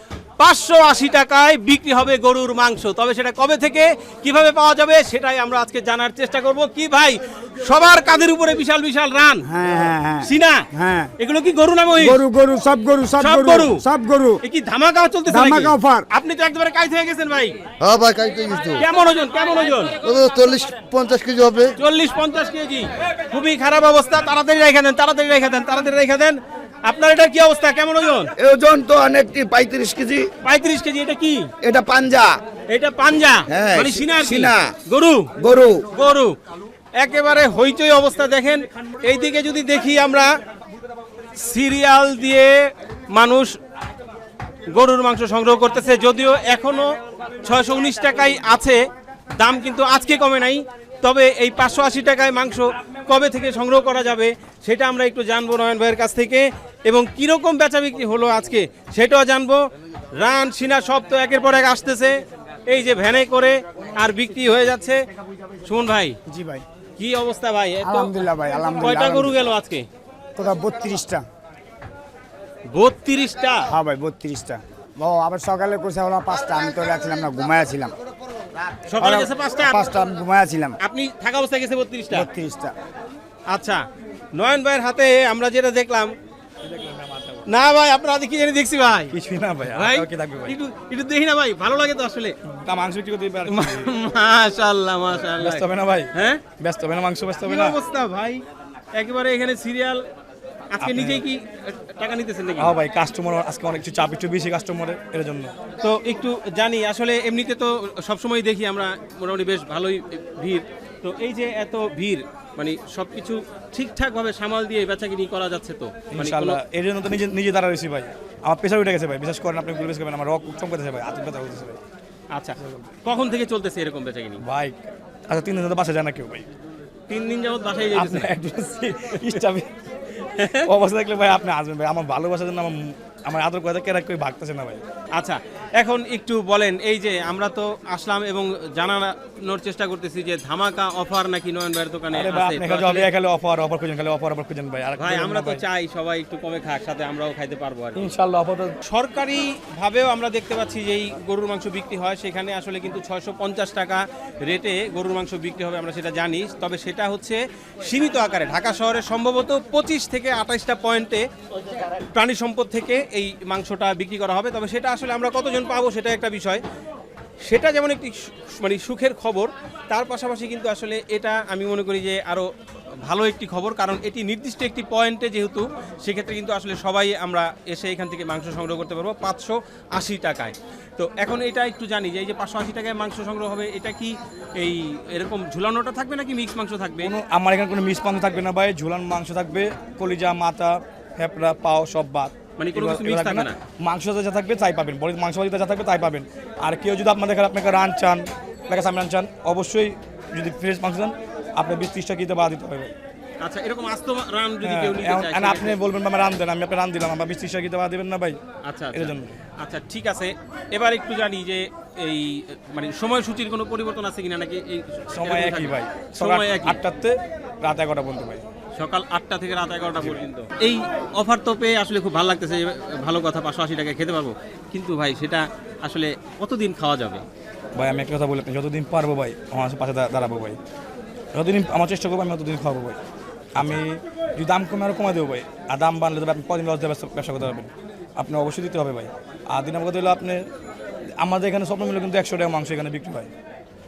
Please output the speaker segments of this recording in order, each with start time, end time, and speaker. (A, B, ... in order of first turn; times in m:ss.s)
0:00.4-0:09.5 A
0:09.5-0:11.1 B
0:10.2-0:10.7 A
0:11.2-0:12.2 A
0:12.0-0:14.4 B
0:13.2-0:13.9 A
0:14.4-0:17.6 A
0:15.3-0:16.1 B
0:17.8-0:18.8 C
0:18.7-0:20.0 A
0:20.0-0:21.7 C
0:21.8-0:28.3 A
0:28.4-0:30.3 D
0:30.4-0:31.5 A
0:31.6-0:32.3 D
0:32.7-0:35.3 A
0:33.5-0:34.7 D
0:35.4-0:35.8 D
0:35.9-0:36.3 A
0:37.0-0:40.3 A
0:41.4-0:42.5 A
0:43.1-0:43.6 A
0:44.7-0:46.9 A
0:47.4-0:48.8 A
0:49.4-0:59.6 A
1:00.2-1:02.2 A
1:02.7-1:05.0 A
1:05.7-1:06.2 A
1:06.3-1:06.6 B
1:07.0-1:09.8 A
1:07.8-1:09.3 B
1:09.0-1:09.3 D
1:10.4-1:11.2 B
1:12.7-1:13.7 A
1:13.7-1:17.9 B
1:18.9-1:19.8 A
1:19.0-1:20.2 D
1:19.9-1:20.7 B
1:20.8-1:22.3 A
1:22.1-1:22.7 B
1:23.5-1:23.8 A
1:24.3-1:26.1 A
1:26.6-1:27.4 E
1:27.5-1:29.1 A
1:29.1-1:30.6 E
1:29.7-1:32.3 A
1:32.4-1:33.9 E
1:33.5-1:36.4 A
1:35.4-1:37.8 E
1:37.4-1:38.4 A
1:39.0-1:40.0 A
1:40.7-1:42.8 A
1:40.8-1:41.2 E
1:42.6-1:45.5 E
1:45.8-1:56.6 A
1:56.1-2:01.8 E
2:02.3-2:04.4 A
2:02.6-2:02.9 E
2:04.4-2:06.5 E
2:07.1-2:08.3 A
2:07.9-2:09.7 E
2:10.3-2:10.7 A
2:10.6-2:14.8 E
2:15.2-2:23.1 A
2:22.1-2:25.6 E
2:25.0-2:28.1 A
2:28.0-2:28.8 E
2:28.8-2:41.2 A
2:42.1-2:46.6 A
2:47.5-2:52.5 A
2:53.0-3:07.1 A
3:07.0-3:22.9 E
3:12.6-3:13.6 A
3:23.4-3:25.8 A
3:24.6-3:28.4 E
3:28.6-3:36.8 A
3:28.9-3:29.4 E
3:35.1-3:38.4 E
3:38.8-3:47.2 A
3:47.8-3:50.6 E
3:51.3-3:53.0 E
3:53.6-4:00.5 E
4:01.2-4:03.3 E